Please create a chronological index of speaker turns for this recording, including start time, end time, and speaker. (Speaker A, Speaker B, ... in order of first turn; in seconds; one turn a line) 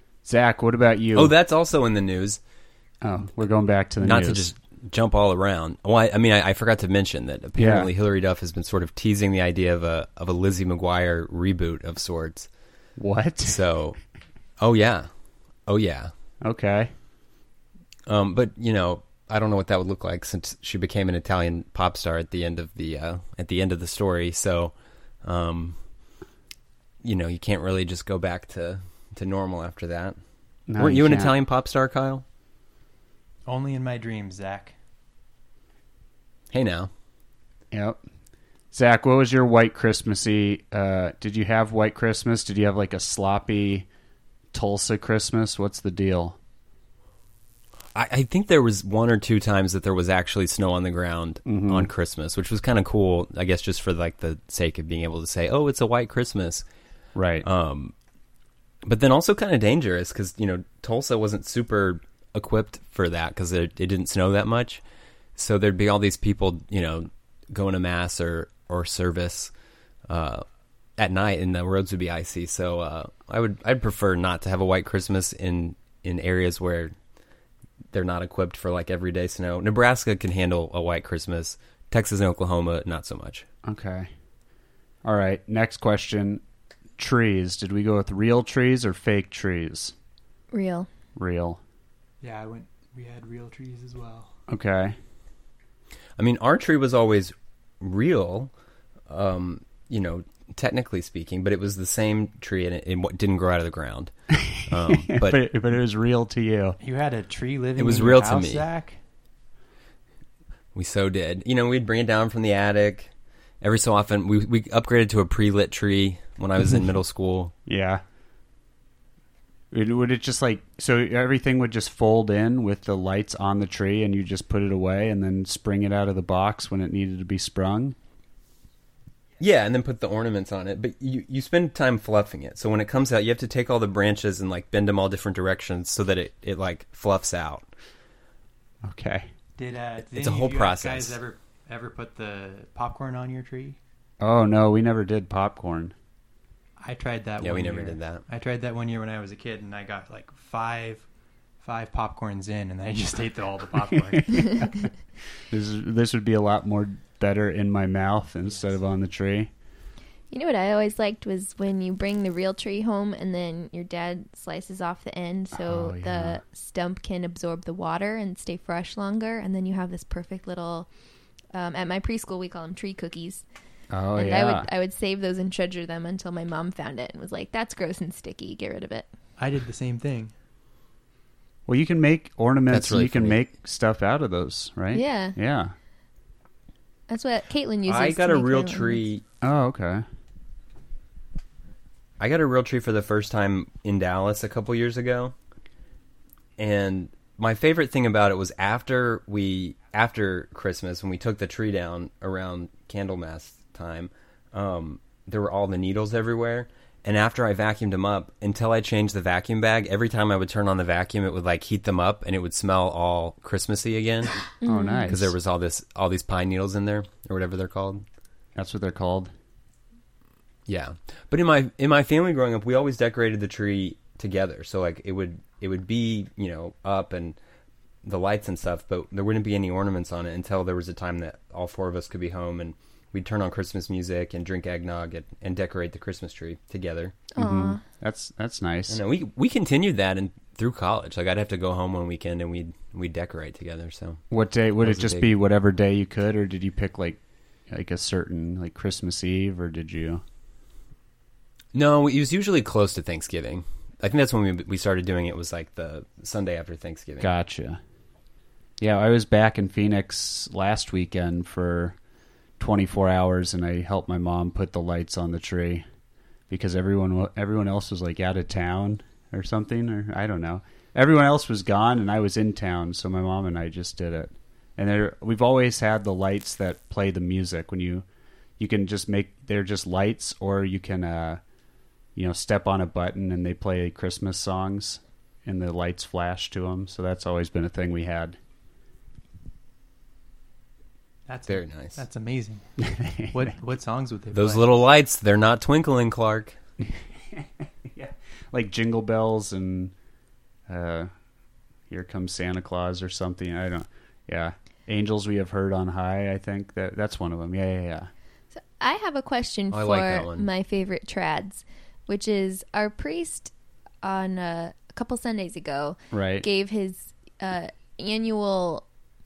Speaker A: 0.2-1.3
Speaker B: 1.1-2.4
Speaker A: 3.0-4.5
Speaker B: 4.0-12.5
Speaker A: 7.6-7.9
Speaker A: 13.0-13.6
Speaker B: 13.4-14.0
Speaker B: 14.6-15.1
Speaker B: 15.7-16.1
Speaker A: 16.4-16.9
Speaker B: 18.1-25.8
Speaker B: 27.0-30.2
Speaker A: 30.7-31.3
Speaker B: 30.8-32.2
Speaker C: 33.5-34.7
Speaker B: 36.5-36.9
Speaker A: 37.7-38.0
Speaker A: 38.7-43.9
Speaker A: 44.5-46.4
Speaker B: 47.9-56.6
Speaker A: 51.5-51.9
Speaker A: 57.1-57.5
Speaker B: 57.4-57.9
Speaker B: 58.8-64.8
Speaker B: 65.3-69.5
Speaker B: 70.1-70.5
Speaker B: 71.0-76.9
Speaker B: 77.9-83.4
Speaker A: 83.6-84.1
Speaker A: 85.0-86.4
Speaker A: 87.0-89.9
Speaker D: 90.5-90.9
Speaker A: 91.2-91.6
Speaker C: 92.2-94.3
Speaker A: 94.5-95.0
Speaker B: 96.2-98.5
Speaker B: 99.1-104.1
Speaker A: 104.3-106.8
Speaker B: 104.6-105.4
Speaker C: 106.8-109.0
Speaker B: 107.8-108.6
Speaker B: 110.7-117.5
Speaker A: 117.7-118.0
Speaker A: 119.7-128.0
Speaker B: 129.4-137.7
Speaker A: 138.8-139.3
Speaker C: 139.6-143.8
Speaker B: 140.1-141.2
Speaker A: 144.2-145.9
Speaker C: 146.8-151.0
Speaker B: 147.4-148.2
Speaker C: 151.6-154.8
Speaker A: 154.3-154.7
Speaker A: 155.5-159.5
Speaker D: 160.3-170.9
Speaker A: 165.5-166.4
Speaker D: 171.5-173.4
Speaker A: 173.9-174.7
Speaker D: 174.2-179.1
Speaker C: 179.4-180.3
Speaker A: 181.7-185.7
Speaker B: 182.7-183.4
Speaker D: 184.9-185.3
Speaker D: 187.1-189.0
Speaker B: 187.8-189.2
Speaker A: 189.4-190.0
Speaker B: 192.2-195.3
Speaker B: 196.6-214.4
Speaker D: 214.6-215.1
Speaker A: 214.7-215.3
Speaker B: 215.1-218.0
Speaker A: 218.5-219.3
Speaker B: 220.7-227.4
Speaker B: 228.0-237.2
Speaker D: 237.3-237.8
Speaker A: 237.4-239.0
Speaker B: 238.9-244.2
Speaker A: 244.3-247.2
Speaker B: 244.8-245.3
Speaker A: 247.7-250.2
Speaker B: 251.7-257.3
Speaker A: 257.2-257.8
Speaker A: 258.8-262.0
Speaker A: 262.6-265.8
Speaker A: 266.5-278.0
Speaker A: 278.6-281.4
Speaker A: 282.1-288.4
Speaker C: 291.3-292.6
Speaker B: 291.5-292.0
Speaker A: 292.8-293.4
Speaker C: 293.3-294.6
Speaker B: 294.3-296.6
Speaker A: 296.8-299.9
Speaker A: 300.7-301.1
Speaker A: 301.9-308.1
Speaker D: 308.8-318.8
Speaker B: 309.7-310.5
Speaker A: 316.1-316.4